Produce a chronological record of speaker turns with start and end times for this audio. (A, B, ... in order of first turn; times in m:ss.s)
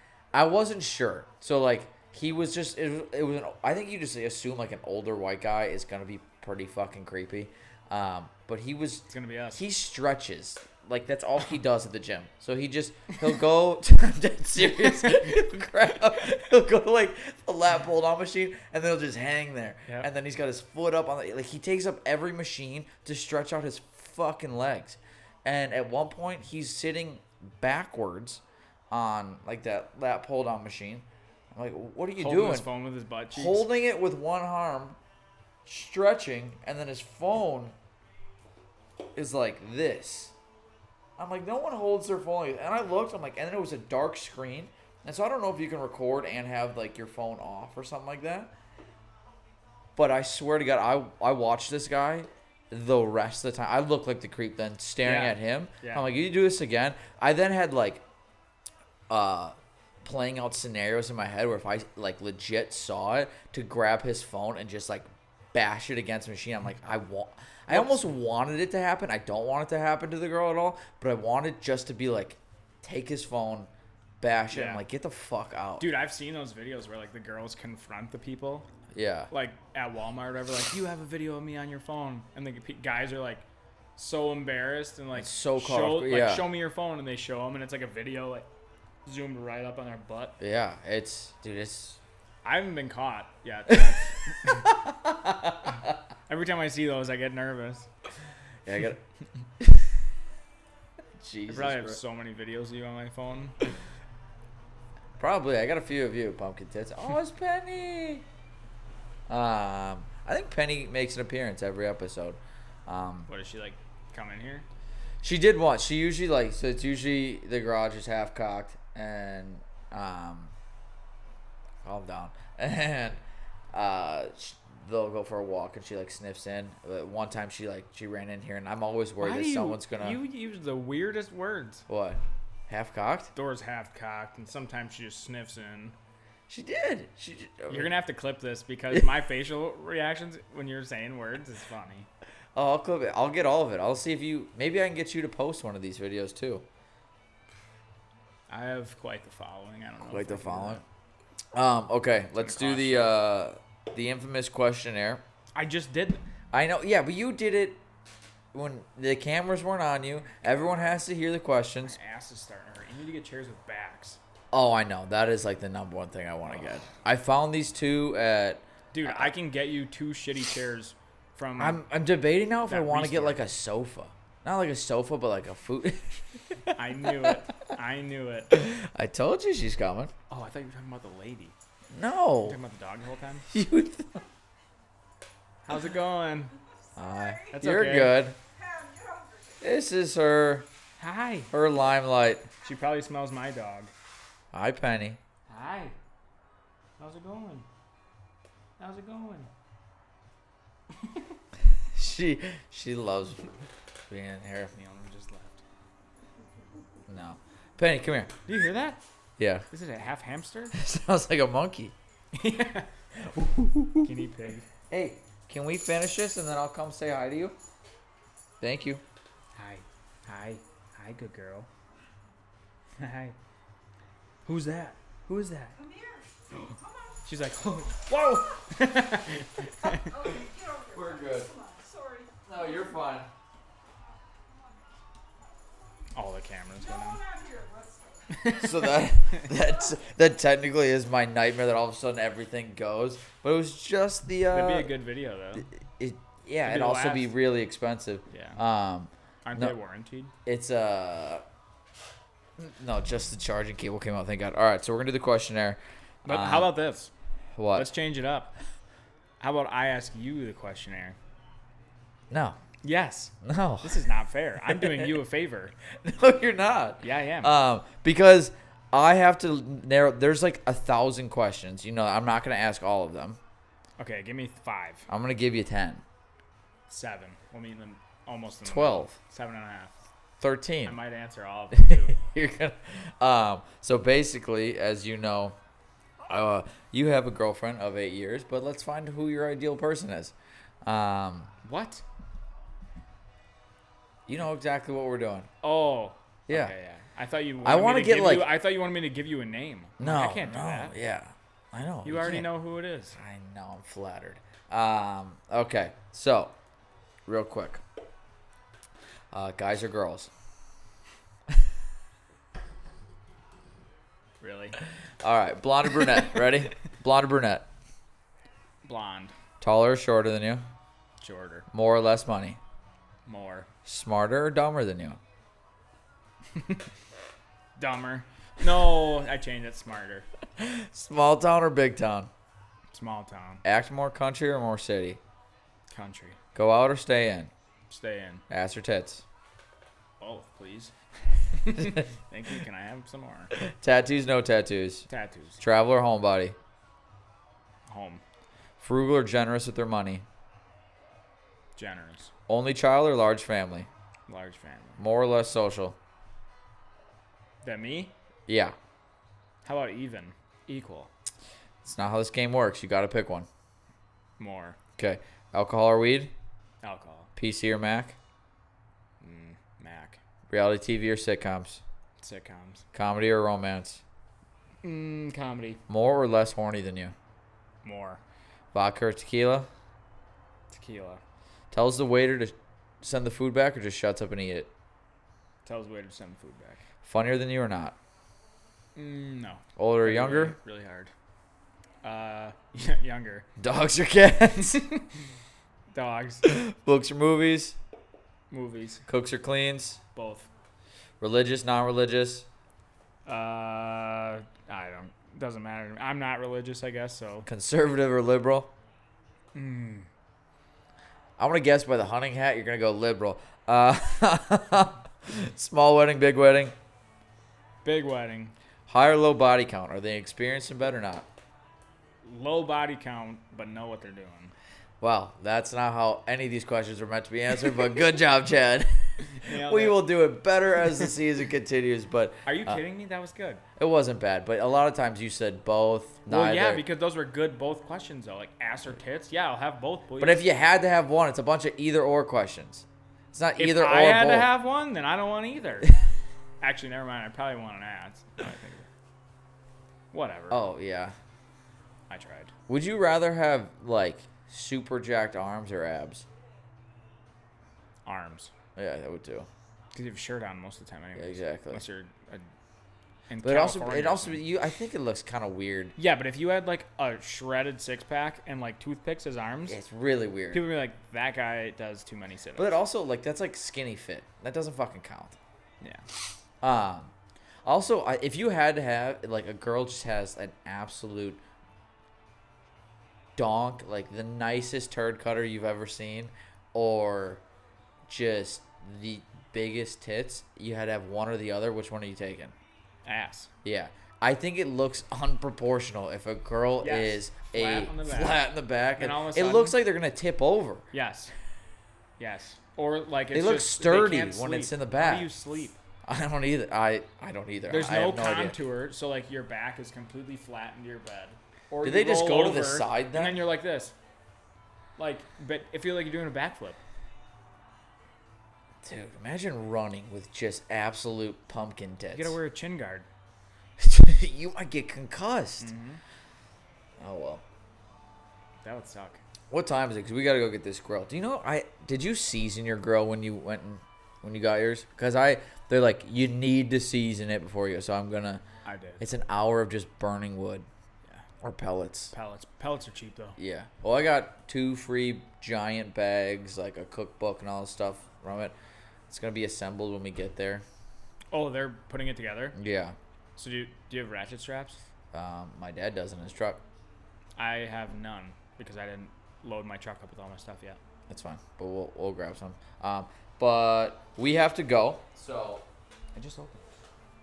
0:00.3-0:32.7 A
0:09.1-0:09.6 B
0:32.2-0:33.7 B
0:33.3-0:35.0 A
0:35.7-0:37.8 A
0:39.2-0:40.3 A
0:41.2-0:48.5 A
0:50.0-0:58.0 A
0:55.0-0:56.1 B
0:59.1-1:13.7 A
1:07.7-1:08.0 B
1:14.2-1:15.9 A
1:14.5-1:14.8 B
1:15.8-1:18.7 B
1:18.9-1:19.3 A
1:19.3-1:23.4 B
1:24.0-1:28.5 B
1:25.1-1:26.5 A
1:29.0-1:30.4 B
1:30.4-1:32.0 A
1:32.4-1:34.7 B
1:34.4-1:35.9 A
1:36.3-1:37.9 B
1:38.6-1:39.0 A
1:39.6-1:39.9 A
1:41.2-1:42.0 A
1:41.5-1:43.6 B
1:45.2-1:48.2 A
1:49.3-1:53.3 A
1:53.3-1:54.7 B
1:55.2-2:00.5 A
2:01.8-2:03.2 A
2:03.7-2:10.2 A
2:09.2-2:11.9 B
2:11.9-2:13.3 A
2:13.4-2:16.0 B
2:16.5-2:17.9 A
2:17.7-2:22.1 B
2:22.6-2:26.6 A
2:28.5-2:30.8 B
2:30.0-2:30.8 A
2:31.5-2:35.2 A
2:32.4-2:33.1 B
2:35.6-2:36.2 B
2:36.5-2:37.8 A
2:38.5-2:42.0 A
2:40.4-2:41.0 B
2:41.8-2:44.2 B
2:44.5-2:49.3 A
2:48.9-2:51.8 B
2:51.6-2:57.4 A
2:52.7-2:53.4 B
2:56.8-2:58.6 B
2:58.5-3:00.1 A
3:00.3-3:01.6 B
3:01.9-3:02.6 A
3:02.4-3:03.5 B
3:03.5-3:04.2 A
3:05.6-3:06.5 B
3:07.0-3:07.6 C
3:07.0-3:08.4 A
3:07.5-3:08.2 B
3:08.4-3:09.6 C
3:09.6-3:10.7 A
3:11.0-3:11.5 B
3:11.5-3:12.5 A
3:12.6-3:13.9 B
3:14.5-3:15.2 A
3:15.5-3:16.0 B
3:17.0-3:17.7 B
3:18.8-3:19.5 B
3:21.9-3:23.5 A
3:24.1-3:24.8 A
3:24.8-3:25.6 B
3:27.1-3:28.3 A
3:28.5-3:29.0 B
3:29.4-3:29.7 A
3:29.7-3:30.8 B
3:30.7-3:31.9 A
3:32.3-3:32.9 B
3:33.2-3:34.1 A
3:34.0-3:34.6 B
3:34.9-3:37.6 A
3:38.6-3:39.0 A
3:39.6-3:41.7 B
3:43.0-3:43.4 B
3:44.5-3:45.8 B
3:45.8-3:48.7 C
3:47.2-3:50.1 B
3:49.8-3:52.6 C
3:50.9-3:51.5 A
3:52.4-3:53.3 A
3:56.2-3:57.2 B
3:56.8-3:58.4 C
3:58.3-3:59.5 B
3:58.5-4:04.9 A
4:04.5-4:05.7 B
4:05.6-4:09.8 A
4:06.6-4:07.3 B
4:08.3-4:08.6 B
4:09.4-4:10.3 B
4:10.4-4:11.4 A
4:12.6-4:16.7 A
4:16.2-4:17.1 B
4:17.6-4:17.9 A
4:17.7-4:18.6 B
4:19.4-4:21.2 B
4:22.3-4:22.6 A
4:22.8-4:25.7 B
4:23.4-4:24.0 A
4:24.6-4:25.2 A
4:25.9-4:33.4 A
4:27.0-4:27.6 B
4:34.0-4:35.1 B
4:35.1-4:36.0 A
4:36.9-4:40.0 B
4:38.6-4:39.2 A
4:40.4-4:41.0 A
4:40.8-4:42.2 B
4:41.7-4:45.6 A
4:46.3-4:51.5 A
4:51.6-4:52.0 B
4:54.3-4:55.5 A
4:55.6-5:00.9 B
4:56.5-4:56.7 A
4:57.6-4:58.5 A
5:00.0-5:02.6 A
5:02.0-5:03.2 B
5:03.2-5:06.6 A
5:07.3-5:07.8 A
5:09.3-5:10.3 A
5:14.4-5:14.8 B
5:15.2-5:17.7 A
5:18.8-5:19.3 B
5:19.6-5:20.6 A
5:21.2-5:21.7 B
5:21.7-5:22.6 A
5:23.3-5:23.7 B
5:23.8-5:25.2 A
5:26.5-5:26.8 B
5:27.8-5:30.3 B
5:30.6-5:32.3 A
5:32.9-5:33.6 B
5:33.6-5:35.2 A
5:35.9-5:36.4 B
5:36.6-5:37.5 A
5:37.9-5:38.4 B
5:38.5-5:39.2 A
5:40.2-5:40.9 B
5:41.5-5:43.5 B
5:43.6-5:45.1 A
5:45.1-5:45.6 B
5:45.6-5:46.6 A
5:47.9-5:48.2 B
5:48.8-5:50.2 A
5:51.8-5:52.3 B
5:52.5-5:53.9 A
5:54.3-5:55.0 B
5:55.0-5:56.0 A
5:57.6-5:58.1 B
5:58.5-5:58.8 A
5:59.6-6:01.1 B
6:01.8-6:03.5 A
6:04.4-6:04.8 B
6:05.0-6:06.3 A
6:06.8-6:07.3 B
6:07.4-6:08.2 A
6:09.2-6:10.2 B
6:10.5-6:11.8 A
6:12.2-6:12.8 B
6:12.9-6:14.0 A
6:14.8-6:15.8 B
6:15.9-6:17.1 A
6:17.8-6:18.2 B
6:18.7-6:19.7 A
6:20.7-6:21.2 B
6:21.7-6:24.7 A
6:25.7-6:26.8 B
6:27.0-6:28.0 A
6:29.0-6:31.1 B
6:29.8-6:30.6 A
6:32.0-6:33.5 B
6:33.6-6:34.8 A
6:34.6-6:35.1 B
6:35.9-6:36.5 B
6:36.4-6:37.8 A
6:38.5-6:39.0 B
6:39.1-6:40.0 A
6:40.2-6:40.5 B
6:41.2-6:42.5 A
6:43.3-6:47.5 B
6:47.5-6:48.7 A
6:49.5-6:50.1 B
6:51.4-6:56.7 A
6:57.8-6:58.5 B
6:58.9-7:01.3 A
7:02.2-7:04.5 B
7:05.0-7:12.8 A
7:09.3-7:10.0 B
7:12.5-7:13.6 B
7:13.8-7:16.8 A
7:16.3-7:20.4 B
7:20.2-7:24.5 A
7:23.6-7:26.0 B
7:26.6-7:28.9 B
7:30.1-7:30.6 B
7:30.5-7:31.2 A
7:32.1-7:32.5 B
7:32.7-7:36.2 A
7:38.1-7:38.5 B
7:38.8-7:39.5 A
7:39.9-7:42.5 B
7:41.2-7:41.8 A
7:43.3-7:44.4 B
7:43.4-7:46.0 A
7:46.0-7:49.8 B
7:49.7-7:50.7 A
7:50.5-7:52.8 B
7:52.6-7:55.4 A
7:55.8-7:56.1 B
7:56.6-7:57.1 A
7:57.6-8:01.4 A
8:03.4-8:07.4 A
8:08.1-8:12.5 A
8:13.1-8:13.5 B
8:13.6-8:20.9 A
8:16.8-8:18.4 B
8:19.0-8:19.8 B
8:20.9-8:21.3 B
8:22.2-8:25.8 B
8:23.3-8:25.3 A
8:26.1-8:28.6 A
8:27.7-8:34.0 B
8:31.8-8:33.4 A
8:35.0-8:36.8 B
8:38.8-8:42.4 A
8:42.1-8:43.1 B
8:43.8-8:45.7 A
8:45.6-8:46.0 B
8:47.0-8:47.4 A
8:48.6-8:49.2 B
8:49.5-8:58.4 A
8:58.6-8:59.0 B
8:59.0-9:00.7 A
9:01.4-9:02.1 A
9:02.1-9:03.4 B
9:03.4-9:08.5 A
9:09.1-9:10.6 A
9:11.3-9:12.6 B
9:12.6-9:13.0 A
9:13.4-9:14.8 B
9:15.1-9:16.6 A
9:17.4-9:20.8 B
9:21.1-9:25.6 A
9:26.2-9:26.6 A